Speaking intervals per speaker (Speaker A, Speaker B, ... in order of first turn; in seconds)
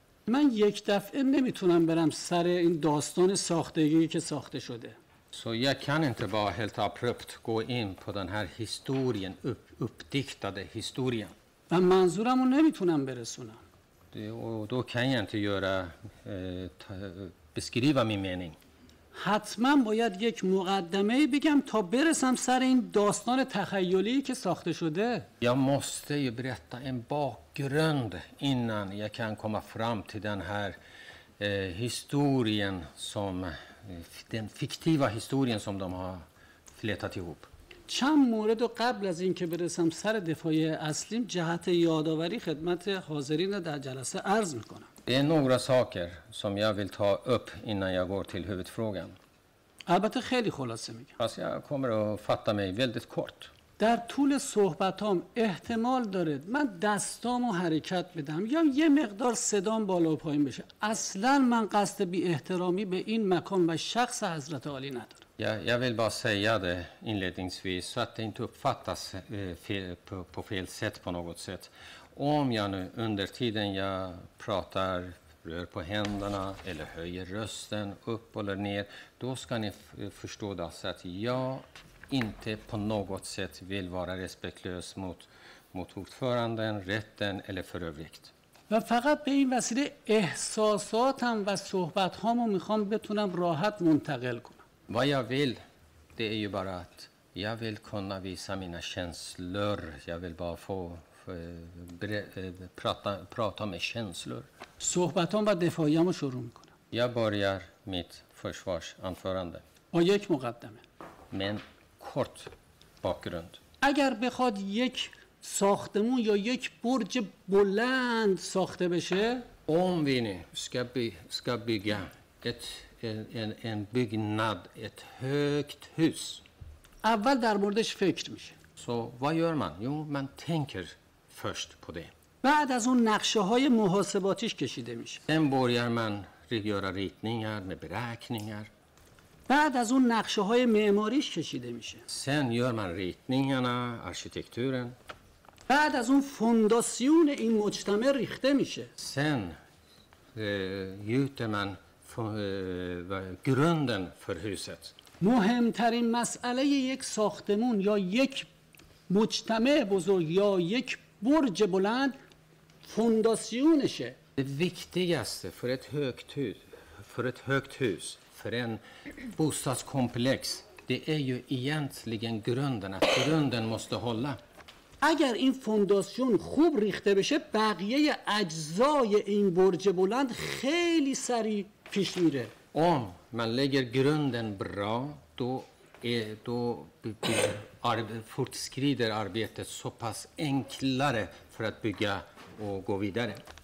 Speaker A: 0.3-5.0, 11.7-13.6, 19.1-25.3, 37.9-44.9, 49.9-51.1, 53.8-65.2, 88.7-94.6, 104.8-106.7, 109.9-110.8, 113.8-119.5, 127.0-128.6, 132.4-135.2, 139.5-142.0, 145.7-148.9, 155.2-158.5, 159.1-162.1, 162.8-164.2, 175.0-182.5
Speaker B: 5.3-11.3, 14.1-18.6, 25.4-30.8, 31.4-37.5, 45.0-49.1, 51.2-53.5, 65.4-88.3, 94.9-95.6, 96.2-104.5, 106.9-109.6, 111.3-112.5, 113.0-113.6, 119.7-126.4, 128.8-132.1, 135.3-138.7, 142.1-145.0, 149.0-149.6, 150.3-154.9, 164.4-174.4, 182.7-193.4